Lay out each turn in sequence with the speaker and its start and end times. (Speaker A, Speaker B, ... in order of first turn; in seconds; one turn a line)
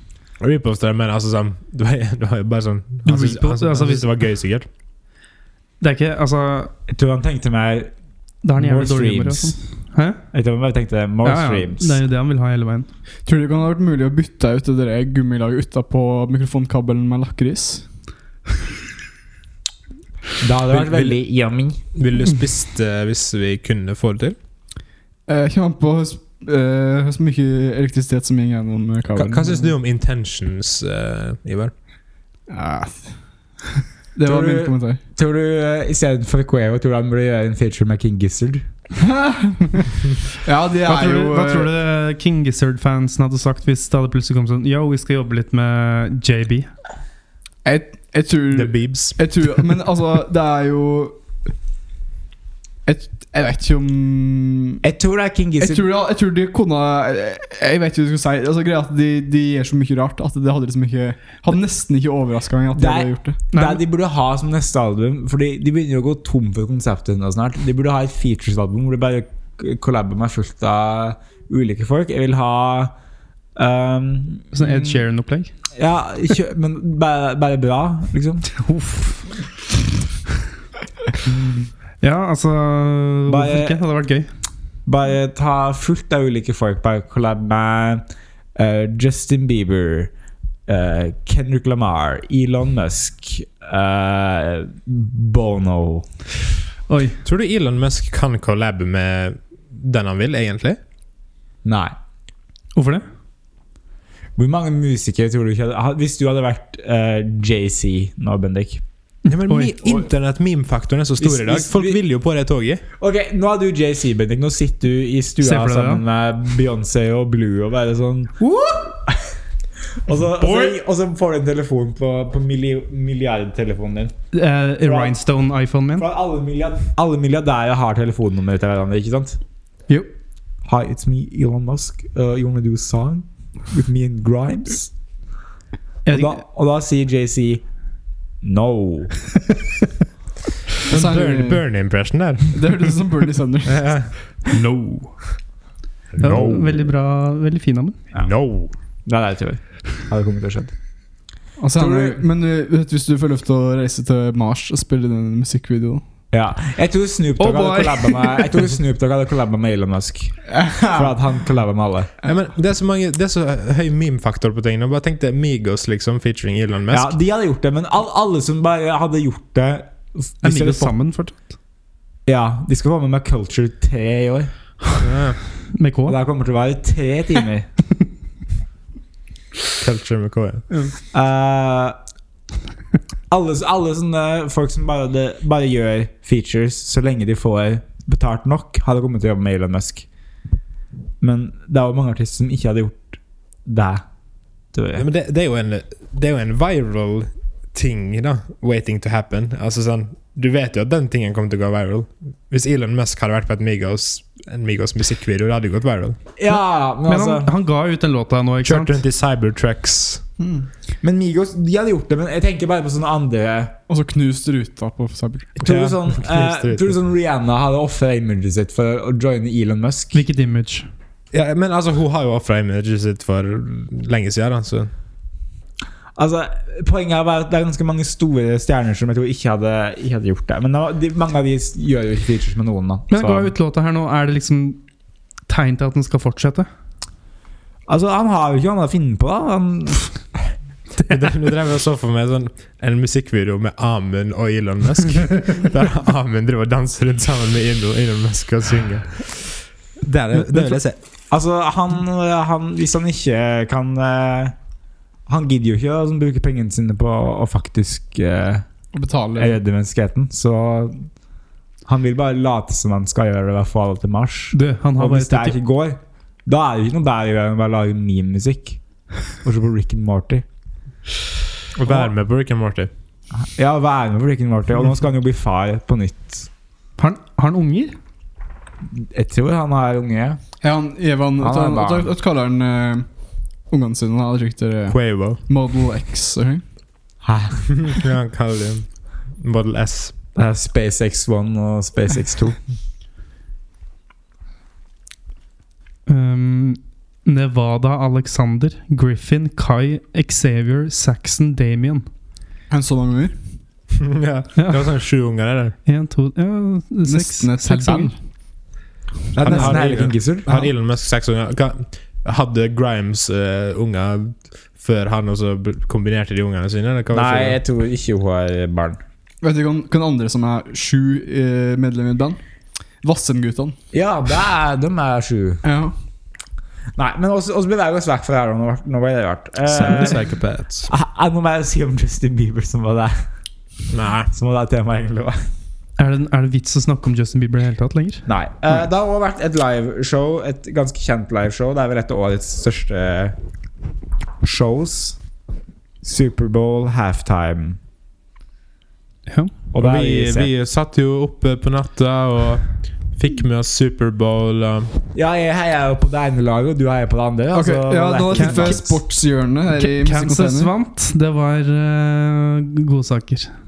Speaker A: 0.4-4.7
Speaker B: 3.0-4.1
Speaker B: 5.8-6.7
Speaker C: 6.9-7.9
Speaker B: 8.4-10.2
Speaker C: 8.6-9.6
Speaker C: 10.3-12.0
Speaker B: 11.2-12.9
Speaker D: 13.2-17.9
Speaker C: 20.4-21.8
Speaker A: 20.7-21.2
Speaker A: 21.9-24.4
Speaker D: 25.3-29.7
Speaker A: 29.1-31.7
Speaker D: 32.5-33.6
Speaker D: 34.1-35.0
Speaker C: 34.2-38.6
Speaker D: 39.0-39.9
Speaker D: 40.4-41.7
Speaker B: 40.8-46.7
Speaker D: 47.6-51.1
Speaker A: 48.5-49.3
Speaker D: 52.8-54.8
Speaker C: 54.8-55.9
Speaker D: 55.6-63.4
Speaker C: 62.7-72.9
Speaker B: 63.5-63.8
Speaker C: 73.5-75.0
Speaker B: 74.5-75.5
Speaker C: 75.8-78.5
Speaker B: 78.6-79.2
Speaker C: 81.3-81.7
Speaker B: 82.0-84.3
Speaker C: 83.3-83.8
Speaker C: 84.8-88.0
Speaker C: 88.5-90.1
Speaker C: 90.7-96.1
Speaker B: 96.9-97.2
Speaker A: 97.2-100.8
Speaker C: 101.6-101.9
Speaker B: 102.7-103.0
Speaker C: 104.3-108.8
Speaker B: 109.3-109.7
Speaker A: 109.3-112.8
Speaker C: 111.2-112.0
Speaker C: 113.0-118.4
Speaker B: 115.4-116.0
Speaker B: 118.4-118.9
Speaker C: 120.0-124.1
Speaker B: 120.4-120.7
Speaker B: 124.3-126.0
Speaker C: 124.8-125.2
Speaker C: 126.0-129.4
Speaker C: 130.6-134.9
Speaker B: 136.1-136.4
Speaker C: 136.1-137.6
Speaker C: 138.4-139.1
Speaker A: 140.8-142.9
Speaker D: 140.9-141.6
Speaker D: 142.5-144.0
Speaker A: 143.6-144.4
Speaker B: 144.5-145.4
Speaker A: 146.2-146.8
Speaker B: 146.2-148.0
Speaker A: 148.1-148.7
Speaker C: 149.1-150.7
Speaker D: 151.6-156.0
Speaker C: 151.8-152.2
Speaker C: 156.3-162.1
Speaker B: 157.4-158.6
Speaker D: 160.5-161.1
Speaker A: 162.2-167.1
Speaker C: 166.9-170.9
Speaker B: 170.4-171.4
Speaker C: 172.2-174.5
Speaker A: 175.0-175.4
Speaker B: 175.7-176.2
Speaker C: 176.1-177.7
Speaker A: 179.8-180.7
Speaker C: 181.1-181.9
Speaker C: 183.3-190.1
Speaker C: 191.2-194.0
Speaker C: 194.7-195.1
Speaker A: 194.9-206.2
Speaker C: 206.4-207.5
Speaker B: 207.1-209.0
Speaker A: 208.6-210.2
Speaker D: 210.4-210.7
Speaker C: 211.0-213.8
Speaker D: 213.9-215.5
Speaker C: 215.6-220.2
Speaker A: 215.6-216.9
Speaker B: 220.1-220.9
Speaker A: 221.3-224.9
Speaker C: 226.2-233.5
Speaker B: 233.1-234.8
Speaker B: 235.5-236.7
Speaker C: 237.9-240.3
Speaker A: 241.0-250.9
Speaker C: 251.3-254.5
Speaker C: 255.3-258.6
Speaker D: 258.9-259.5
Speaker C: 259.3-261.1
Speaker C: 261.9-270.4
Speaker B: 264.5-265.6
Speaker A: 271.7-272.9
Speaker C: 273.3-276.5
Speaker B: 277.0-277.9
Speaker C: 278.9-280.4
Speaker D: 280.6-283.1
Speaker C: 281.4-282.1
Speaker D: 283.7-286.6
Speaker A: 284.9-285.4
Speaker C: 287.2-287.7
Speaker A: 287.8-290.1
Speaker C: 290.3-292.6
Speaker B: 296.1-302.1
Speaker D: 302.7-303.4
Speaker A: 304.0-305.8
Speaker B: 304.6-304.8
Speaker B: 305.8-308.1
Speaker D: 307.0-308.1
Speaker C: 309.3-310.7
Speaker A: 309.4-317.6
Speaker C: 317.1-319.0
Speaker D: 319.4-322.4
Speaker D: 323.0-323.8
Speaker C: 323.9-325.6
Speaker D: 325.6-325.9
Speaker C: 326.9-330.4
Speaker A: 329.6-330.9
Speaker C: 330.9-333.2
Speaker A: 333.9-334.3
Speaker C: 334.3-335.4
Speaker B: 336.0-338.3
Speaker C: 338.2-343.4
Speaker C: 344.4-345.2
Speaker C: 346.0-347.8
Speaker B: 349.3-349.5
Speaker C: 349.7-350.5
Speaker A: 349.8-354.9
Speaker C: 355.1-359.0
Speaker D: 357.5-360.7
Speaker B: 358.3-358.8
Speaker B: 359.8-363.5